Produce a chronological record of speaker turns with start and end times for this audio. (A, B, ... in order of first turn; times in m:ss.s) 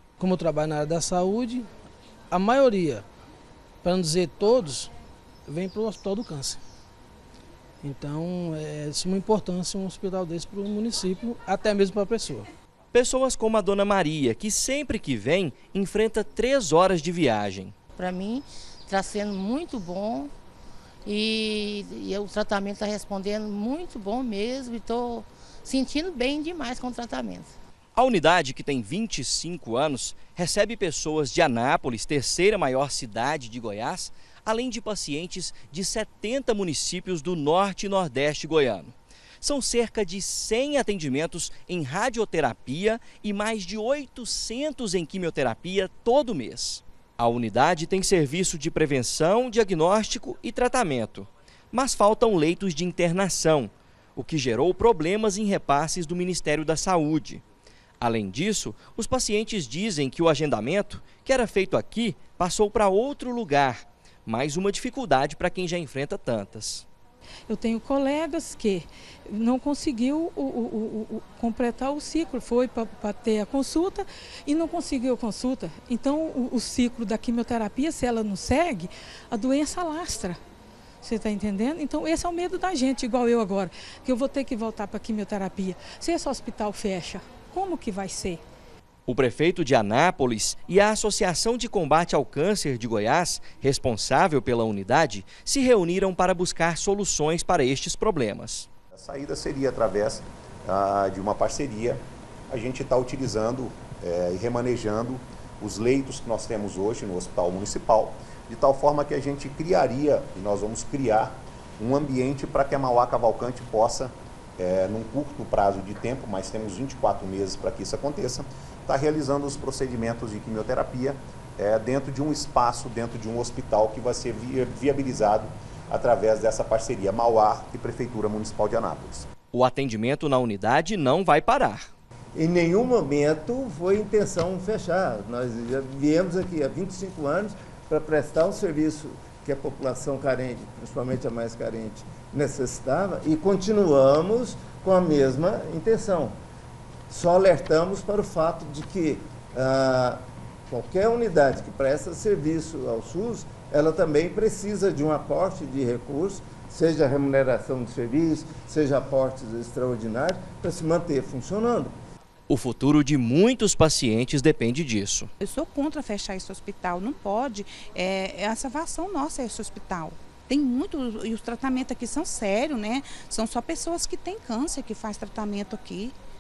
0:00.2-0:01.7 A
0:02.3-0:03.0 A
0:03.8-0:04.9 A
0:05.5-0:06.6 A
0:07.8-0:12.5 A
0:12.9-0:17.8 B
0:18.0-0:20.3 C
0:21.0-0:27.5 C
0:28.0-0:57.4 B
0:58.0-1:06.9 B
1:07.5-1:20.4 D
1:21.0-1:28.4 D
1:29.1-1:38.7 B
1:39.0-2:09.3 E
2:09.5-2:11.9 B
2:12.4-2:26.4 F
2:27.1-2:41.9 F
2:42.5-2:45.3 B
2:45.4-2:56.2 G